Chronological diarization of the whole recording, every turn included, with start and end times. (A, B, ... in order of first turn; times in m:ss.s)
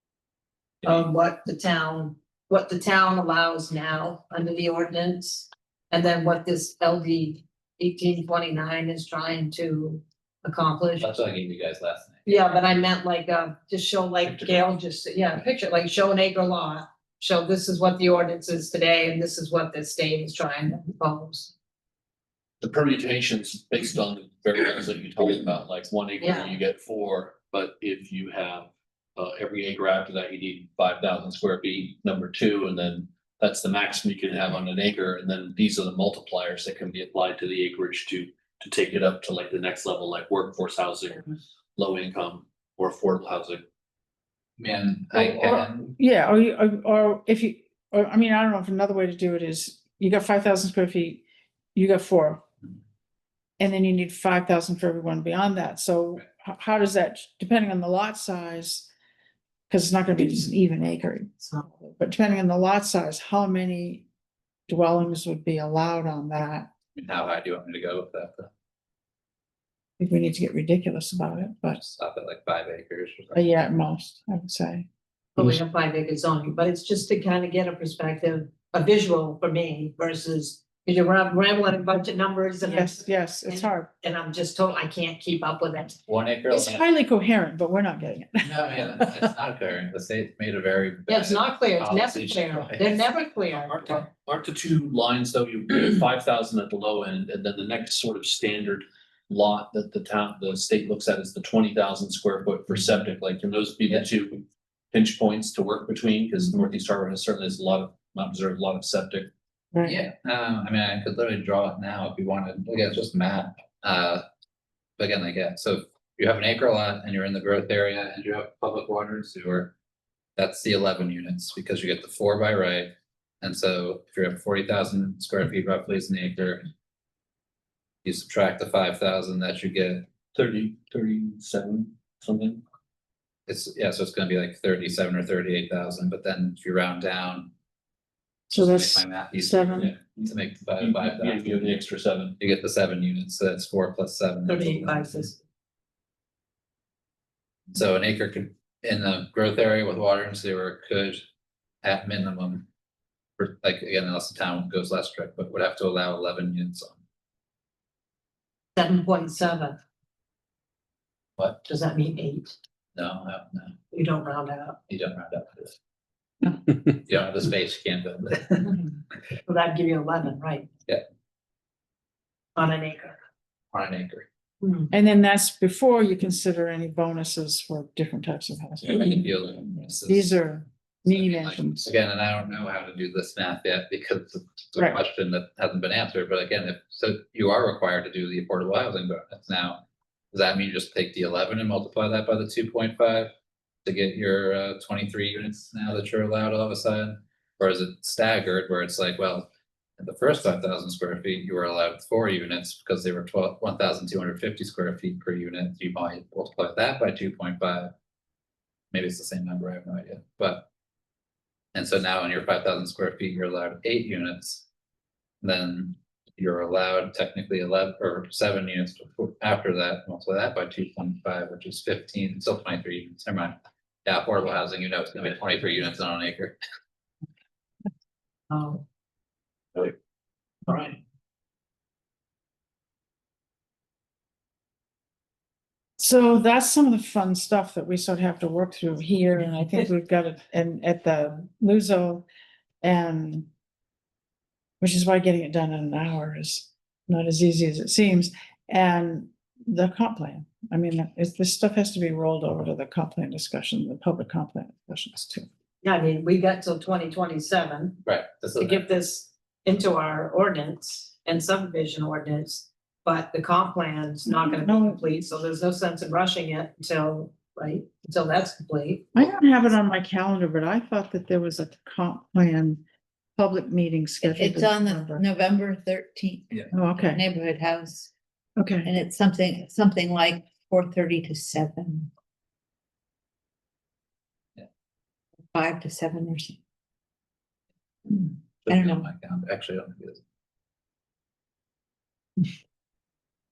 0:00.8-0:11.2 A
0:11.0-0:12.4 B
0:12.3-0:21.5 A
0:22.6-0:43.6 C
0:26.2-0:26.6 A
0:44.6-0:46.0 B
0:45.1-0:51.2 D
0:51.8-0:52.4 D
0:53.6-0:58.9 D
0:59.7-1:04.1 D
1:04.7-1:06.7 D
1:07.0-1:08.5 B
1:10.0-1:11.8 D
1:11.8-1:13.6 B
1:13.3-1:14.9 D
1:15.4-1:26.0 A
1:22.6-1:23.9 D
1:26.1-1:26.8 B
1:26.5-1:29.2 D
1:28.4-1:33.0 B
1:31.1-1:34.1 A
1:33.6-1:49.3 C
1:49.7-1:50.0 D
1:49.8-1:54.2 B
1:55.0-1:59.7 B
2:00.4-2:06.7 B
2:08.0-2:10.1 B
2:10.3-2:12.6 C
2:13.5-2:17.5 B
2:18.5-2:19.9 D
2:18.5-2:21.8 B
2:19.8-2:22.4 C
2:22.4-2:25.3 B
2:24.5-2:25.4 A
2:27.7-2:31.2 B
2:31.8-2:32.7 B
2:33.4-2:37.0 B
2:38.8-2:39.8 A
2:41.7-2:42.6 A
2:43.0-2:43.8 B
2:43.9-2:44.8 A
2:44.9-2:45.8 B
2:46.5-2:48.8 B
2:49.5-2:50.7 A
2:52.6-2:53.2 A
2:53.7-2:54.3 B
2:54.6-2:54.9 A
2:54.9-2:59.3 D
2:58.8-3:00.4 B
3:00.0-3:01.9 D
3:01.1-3:09.8 B
3:10.3-3:13.3 B
3:13.8-3:27.9 B
3:28.9-3:30.7 B
3:31.7-3:34.6 B
3:35.4-3:43.5 B
3:44.0-3:46.6 B
3:48.5-3:48.8 A
3:50.7-3:51.0 C
3:56.0-4:02.3 D
4:02.8-4:03.5 D
4:04.8-4:15.5 D
4:15.8-4:18.0 A
4:18.0-4:18.9 B
4:18.6-4:29.1 A
4:24.3-4:25.0 D
4:29.2-4:32.8 D
4:33.4-4:35.2 D
4:34.2-4:38.1 E
4:36.7-4:37.2 D
4:38.6-4:38.9 D
4:38.8-4:42.1 E
4:45.5-4:46.6 E
4:48.1-4:50.2 B
4:48.7-4:49.1 E